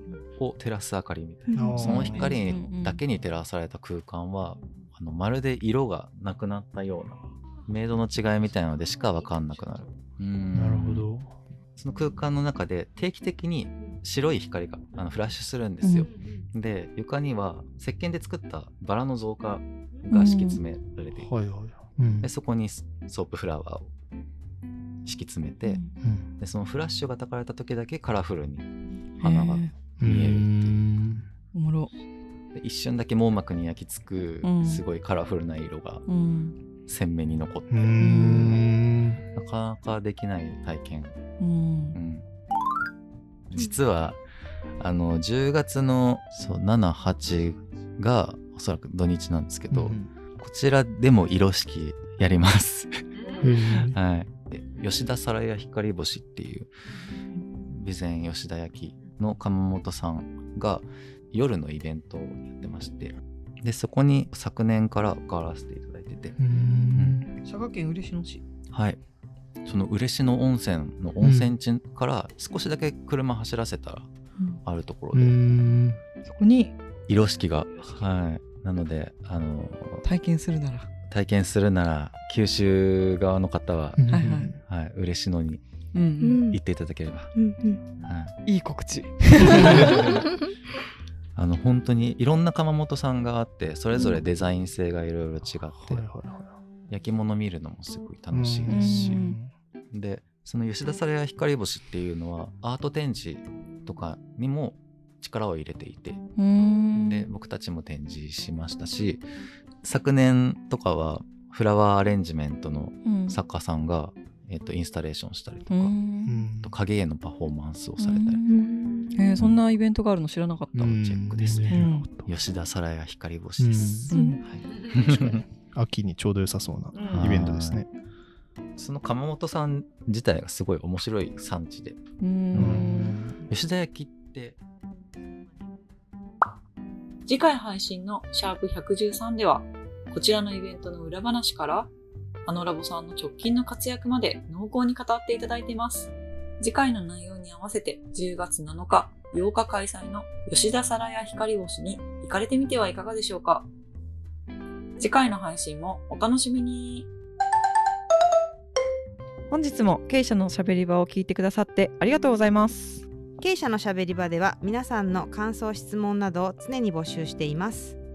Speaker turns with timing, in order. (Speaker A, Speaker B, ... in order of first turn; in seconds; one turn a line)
Speaker A: 0.4-11.1
Speaker B: 1.5-2.3
Speaker C: 1.5-2.3
Speaker D: 2.1-3.0
Speaker C: 10.5-11.4
Speaker A: 11.8-21.3
Speaker D: 15.8-16.1
Speaker D: 20.1-20.6
Speaker C: 21.2-22.3
Speaker A: 22.2-23.9
Speaker A: 25.1-25.8
Speaker D: 25.6-25.9
Speaker C: 26.0-26.3
Speaker A: 26.4-28.7
Speaker D: 29.2-29.7
Speaker A: 29.2-30.8
Speaker C: 30.0-31.3
Speaker D: 31.5-31.9
Speaker A: 32.5-36.0
Speaker D: 34.4-34.8
Speaker D: 36.1-36.5
Speaker A: 36.9-38.6
Speaker C: 37.7-39.2
Speaker D: 38.0-38.5
Speaker A: 39.4-41.1
Speaker D: 41.4-42.0
Speaker A: 41.9-42.2
Speaker A: 43.5-44.2
Speaker A: 44.8-56.7
Speaker C: 49.7-50.1
Speaker C: 53.4-54.0
Speaker A: 57.7-66.4
Speaker C: 66.4-67.3
Speaker A: 67.0-67.2
Speaker A: 68.7-69.0
Speaker A: 69.7-74.1
Speaker C: 71.2-71.5
Speaker A: 74.6-75.4
Speaker C: 75.1-76.0
Speaker D: 76.3-76.7
Speaker A: 77.1-80.0
Speaker D: 80.0-80.9
Speaker A: 81.1-84.0
Speaker C: 84.0-84.6
Speaker D: 84.1-84.5
Speaker A: 84.6-85.6
Speaker D: 85.9-86.4
Speaker B: 86.2-86.6
Speaker A: 86.5-87.3
Speaker B: 87.3-87.8
Speaker A: 88.0-88.4
Speaker D: 88.5-90.2
Speaker A: 89.6-90.2
Speaker C: 89.6-90.1
Speaker A: 91.4-96.0
Speaker C: 95.7-96.6
Speaker A: 96.9-99.2
Speaker C: 98.3-99.5
Speaker D: 98.7-99.4
Speaker A: 99.9-106.2
Speaker D: 106.4-107.3
Speaker A: 107.0-109.2
Speaker A: 109.8-116.0
Speaker D: 113.0-113.4
Speaker D: 115.7-116.3
Speaker C: 116.2-116.7
Speaker A: 116.6-118.4
Speaker D: 118.0-122.1
Speaker B: 118.5-119.2
Speaker C: 120.8-122.3
Speaker A: 121.3-125.4
Speaker C: 123.6-124.1
Speaker D: 124.1-124.4
Speaker B: 124.1-124.4
Speaker C: 124.9-127.9
Speaker A: 127.0-127.8
Speaker A: 128.8-132.0
Speaker D: 132.2-133.2
Speaker A: 132.5-132.9
Speaker C: 132.6-133.4
Speaker A: 133.5-134.6
Speaker E: 137.3-141.9
Speaker E: 142.5-153.7
Speaker E: 155.0-157.1
Speaker D: 159.5-163.0
Speaker F: 163.4-168.0